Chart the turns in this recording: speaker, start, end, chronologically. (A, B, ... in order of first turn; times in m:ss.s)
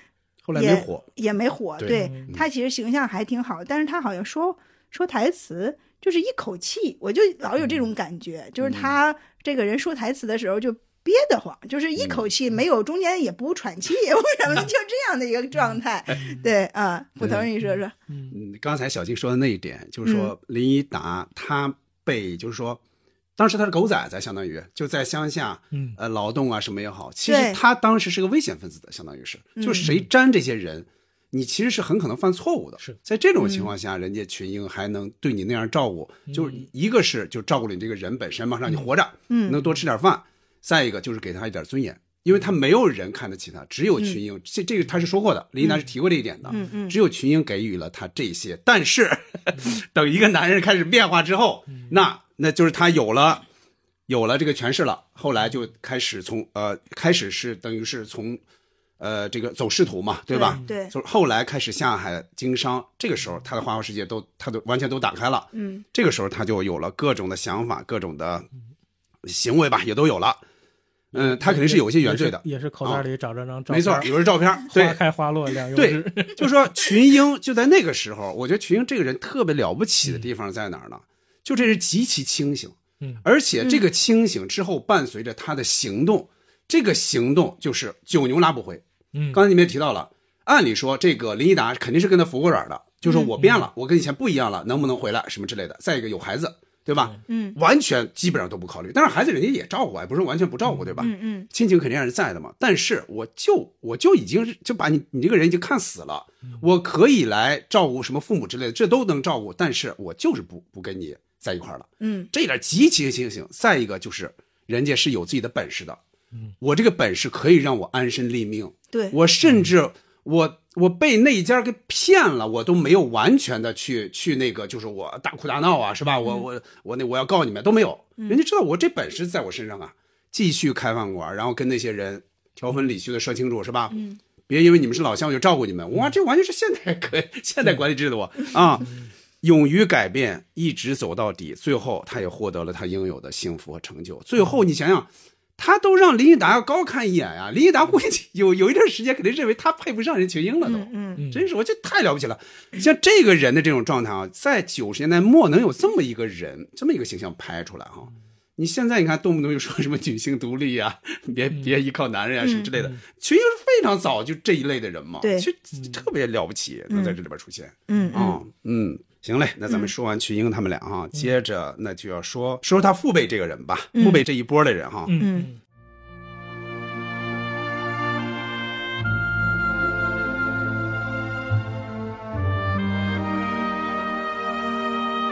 0:00.4-0:01.1 A
0:00.5-0:17.9 B
0:01.8-0:02.4 A
0:01.9-0:02.3 C
0:08.6-0:08.9 A
0:12.0-0:12.3 A
0:16.1-0:16.5 C
0:17.2-0:17.5 A
0:17.6-0:18.4 C
0:18.3-0:22.8 A
0:20.0-0:20.3 B
0:23.4-0:53.4 A
0:25.7-0:26.0 C
0:27.2-0:27.6 B
0:29.6-0:29.9 B
0:29.8-0:30.1 C
0:33.4-0:33.7 B
0:36.3-0:36.7 C
0:39.3-0:39.6 B
0:46.5-0:47.0 B
0:51.7-0:52.0 C
0:54.1-0:58.4 A
0:59.0-1:08.4 A
1:00.3-1:00.9 B
1:05.5-1:05.8 B
1:09.2-1:10.4 A
1:11.1-1:13.0 A
1:11.1-1:14.1 C
1:13.7-1:15.0 A
1:14.7-1:16.9 C
1:15.7-1:56.0 A
1:23.6-1:23.8 B
1:29.1-1:29.4 C
1:33.0-1:33.3 B
1:33.4-1:33.7 C
1:36.9-1:37.2 C
1:37.3-1:37.6 B
1:40.6-1:41.1 C
1:41.0-1:41.5 B
1:52.0-1:52.3 B
1:56.6-2:14.0 A
1:58.9-1:59.2 B
1:59.4-1:59.7 C
2:13.9-2:14.2 B
2:14.5-2:18.9 A
2:18.8-2:19.1 C
2:19.4-2:55.2 A
2:30.6-2:31.2 B
2:31.2-2:31.5 C
2:42.4-2:42.7 B
2:42.8-2:43.0 C
2:45.2-2:45.5 B
2:45.7-2:46.0 C
2:46.9-2:47.2 B
2:47.9-2:48.4 B
2:54.0-2:54.2 B
2:55.0-2:55.6 C
2:55.2-2:55.5 B